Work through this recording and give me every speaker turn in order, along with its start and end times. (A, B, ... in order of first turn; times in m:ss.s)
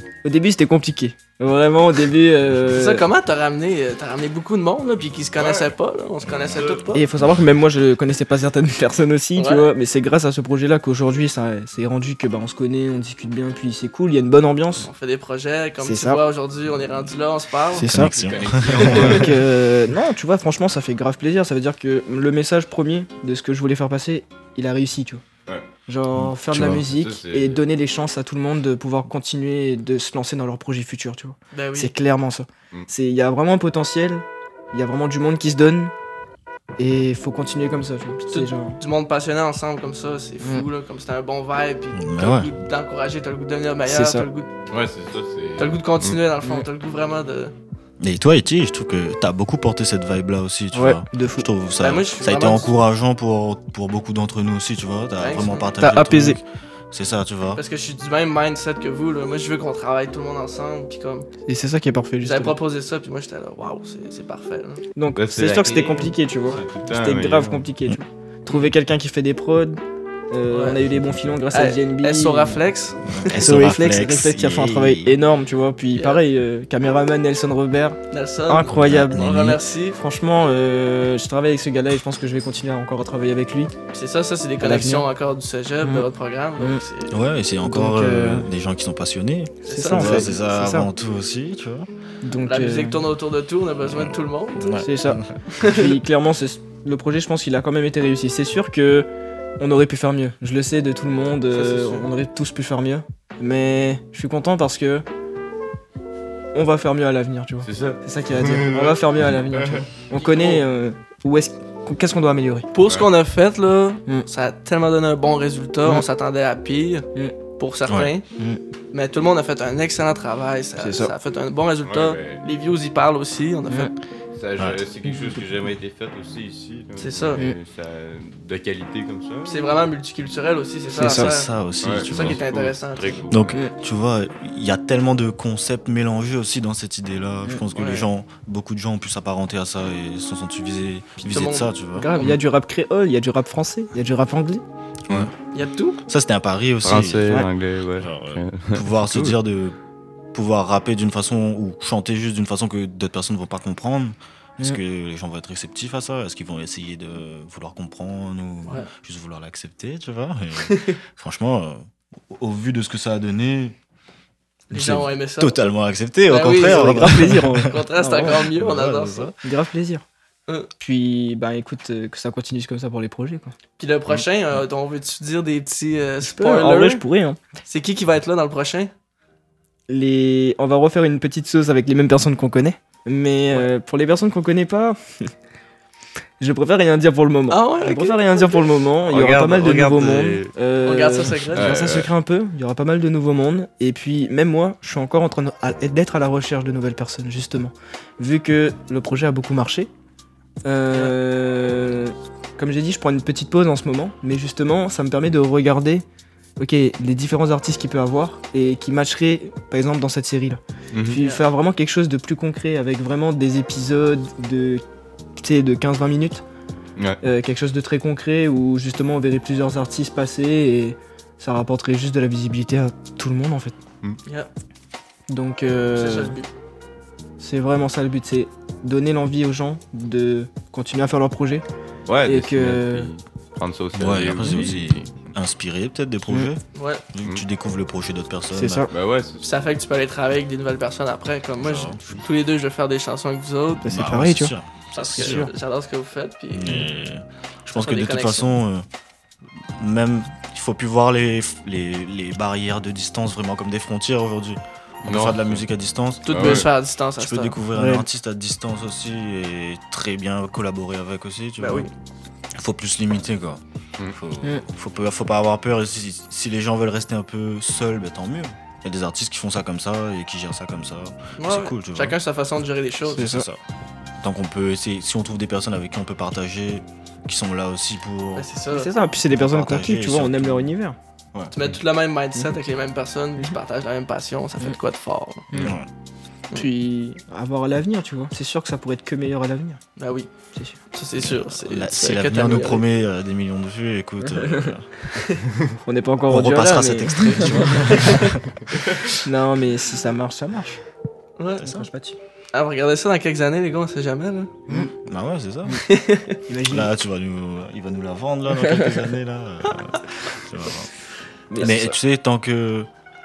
0:00.2-0:03.1 A
0:02.7-0:07.1 B
0:05.4-0:05.7 C
0:06.2-0:06.8 D
0:06.5-0:06.9 C
0:06.9-0:14.9 A
0:09.4-0:09.7 B
0:14.8-0:17.9 B
0:15.8-0:16.2 A
0:17.7-0:18.2 A
0:17.8-0:19.3 D
0:18.0-0:19.4 C
0:18.8-0:19.3 B
0:18.8-0:25.2 A
0:25.9-0:35.9 A
0:26.1-0:26.8 D
0:26.6-0:27.6 C
0:31.5-0:31.9 B
0:36.8-0:38.8 A
0:38.3-0:44.5 B
0:40.4-0:40.7 A
0:41.9-0:42.5 D
0:43.9-0:44.3 A
0:44.7-0:46.2 C
0:45.6-0:47.5 B
0:48.0-0:57.6 D
0:50.7-0:51.5 A
0:51.8-0:52.7 B
0:55.2-0:55.7 B
0:55.8-0:56.4 A
0:57.5-1:01.3 B
1:01.5-1:02.6 A
1:02.2-1:04.8 B
1:05.0-1:12.6 A
1:05.2-1:07.7 C
1:10.5-1:10.8 B
1:11.5-1:13.2 B
1:13.1-1:15.2 D
1:13.3-1:19.3 A
1:16.0-1:16.2 B
1:18.1-1:20.0 B
1:18.7-1:19.6 D
1:20.0-1:23.7 A
1:23.9-1:27.2 B
1:24.6-1:25.1 A
1:25.8-1:26.1 A
1:27.1-1:31.9 D
1:27.6-1:28.5 A
1:29.7-1:30.4 B
1:29.7-1:30.9 A
1:32.2-1:33.0 A
1:32.4-1:34.8 B
1:33.8-1:35.3 D
1:34.8-1:39.1 A
1:35.5-1:36.0 B
1:39.6-1:45.1 A
1:41.5-1:42.1 B
1:46.5-1:52.7 A
1:47.6-1:49.9 C
1:50.1-1:50.6 B
1:52.7-1:57.1 B
1:57.6-1:58.3 B
1:57.9-1:58.1 D
1:58.9-2:03.9 B
2:00.8-2:01.1 A
2:01.8-2:02.4 C
2:03.7-2:03.9 A
2:04.3-2:09.8 C
2:07.0-2:07.4 B
2:09.5-2:11.5 B
2:10.9-2:11.3 A
2:11.0-2:12.4 D
2:11.8-2:13.6 C
2:12.0-2:13.2 B
2:13.3-2:22.1 D
2:17.7-2:18.1 B
2:21.2-2:21.7 B
2:22.0-2:24.6 A
2:25.5-2:26.0 B
2:26.1-2:27.4 D
2:26.8-2:29.4 C
2:28.0-2:29.8 D
2:30.3-2:43.8 D
2:40.6-2:41.0 B
2:44.7-2:45.7 B
2:44.7-2:49.4 D
2:46.3-2:49.3 B
2:46.5-2:48.5 A
2:49.4-2:50.0 A
2:50.8-2:53.5 A
2:53.8-2:57.0 B
2:56.2-2:57.4 A
2:57.7-2:58.9 B
2:59.9-3:05.3 A
3:06.4-3:19.9 A
3:07.5-3:08.6 B
3:09.1-3:10.5 C
3:10.8-3:11.8 B
3:11.5-3:12.1 C
3:20.6-3:26.0 A
3:26.6-3:34.8 A
3:30.9-3:31.2 C
3:31.2-3:31.4 B
3:35.4-3:36.4 A
3:37.2-3:43.8 A
3:44.2-3:44.5 B
3:45.3-3:46.4 A
3:45.9-3:46.5 B
3:47.4-3:51.6 A
3:52.1-3:55.2 C
3:52.2-3:53.1 A
3:53.9-3:58.9 D
3:54.4-3:54.7 A
3:56.8-3:57.0 B
3:58.5-3:58.9 A
3:58.9-3:59.5 C
3:59.4-4:03.9 B
4:01.6-4:02.2 D
4:03.8-4:04.5 A
4:03.9-4:05.5 D
4:05.0-4:06.8 B
4:05.2-4:05.5 A
4:06.5-4:08.9 D
4:07.7-4:08.5 B
4:09.6-4:21.9 D
4:15.0-4:15.6 C
4:16.3-4:17.6 B
4:16.3-4:16.7 C
4:17.7-4:18.1 A
4:21.6-4:21.9 B
4:22.6-4:32.2 D
4:31.4-4:33.3 B
4:33.1-4:33.6 D
4:33.1-4:33.5 A
4:34.2-4:38.5 D
4:38.4-4:38.9 B
4:38.7-4:41.0 A
4:39.3-4:40.7 D
4:41.5-4:45.5 B
4:45.5-4:45.8 A
4:45.6-4:45.9 D
4:46.5-4:49.8 A
4:50.0-4:50.3 B
4:50.9-4:52.8 B
4:51.2-4:54.9 D
4:54.4-4:54.7 A
4:55.8-4:58.2 A
4:56.3-4:58.4 D
4:57.2-4:58.4 B
4:59.2-5:00.8 A
5:01.4-5:01.9 B
5:01.6-5:02.2 A
5:02.5-5:04.6 B
5:05.0-5:05.8 D
5:05.8-5:06.4 B
5:06.5-5:06.9 A
5:06.7-5:10.9 D
5:11.5-5:11.9 A
5:11.6-5:12.9 D